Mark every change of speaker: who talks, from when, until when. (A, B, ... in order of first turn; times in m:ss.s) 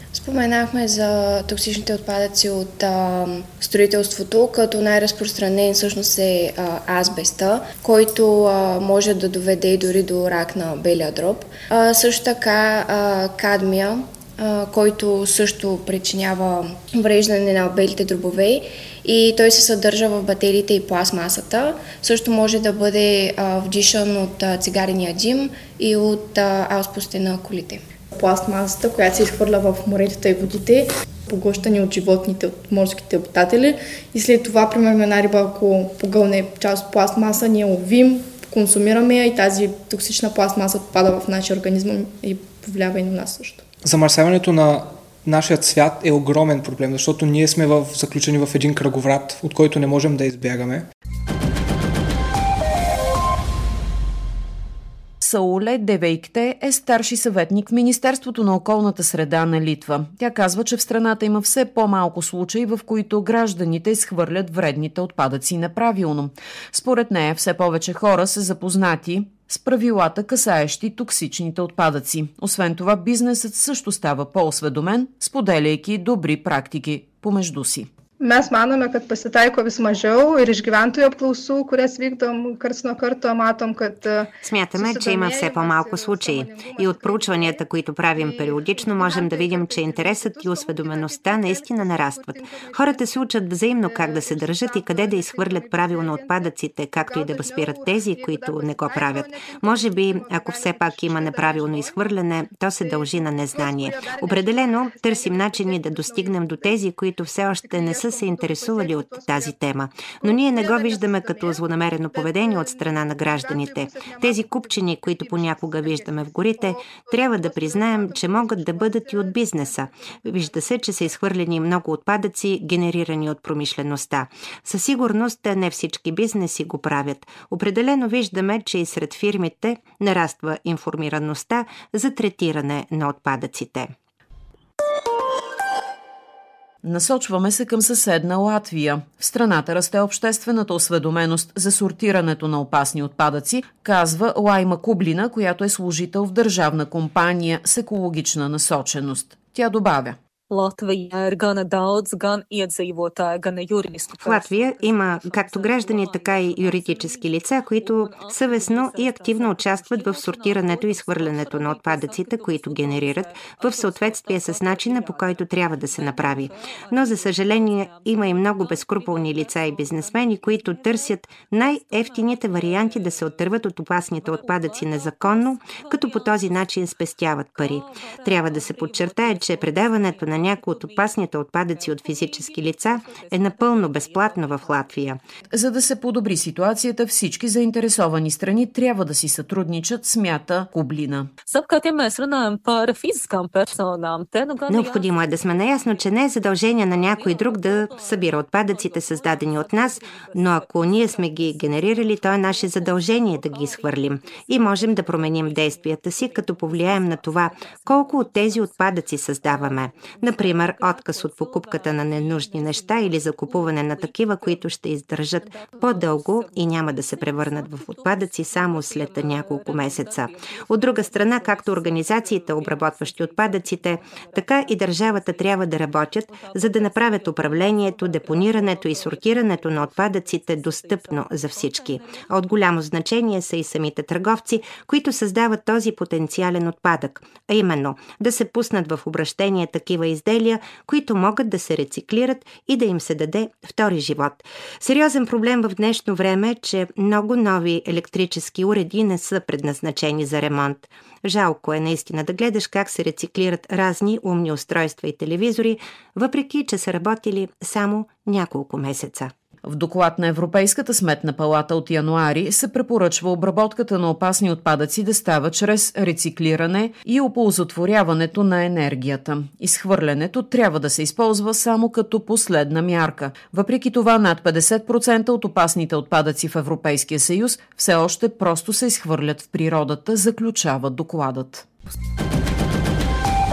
0:00.1-0:27.8 A
0:28.1-0:43.6 B
0:43.8-0:50.9 C
0:55.2-1:17.9 D
1:18.2-1:46.8 B
1:24.4-2:13.9 E
1:47.5-2:01.1 B
2:16.8-2:30.2 D
2:30.5-3:05.0 F
2:34.2-3:05.2 E
3:05.5-3:11.3 D
3:11.4-3:52.6 F
3:14.7-4:19.3 E
4:19.6-4:41.7 D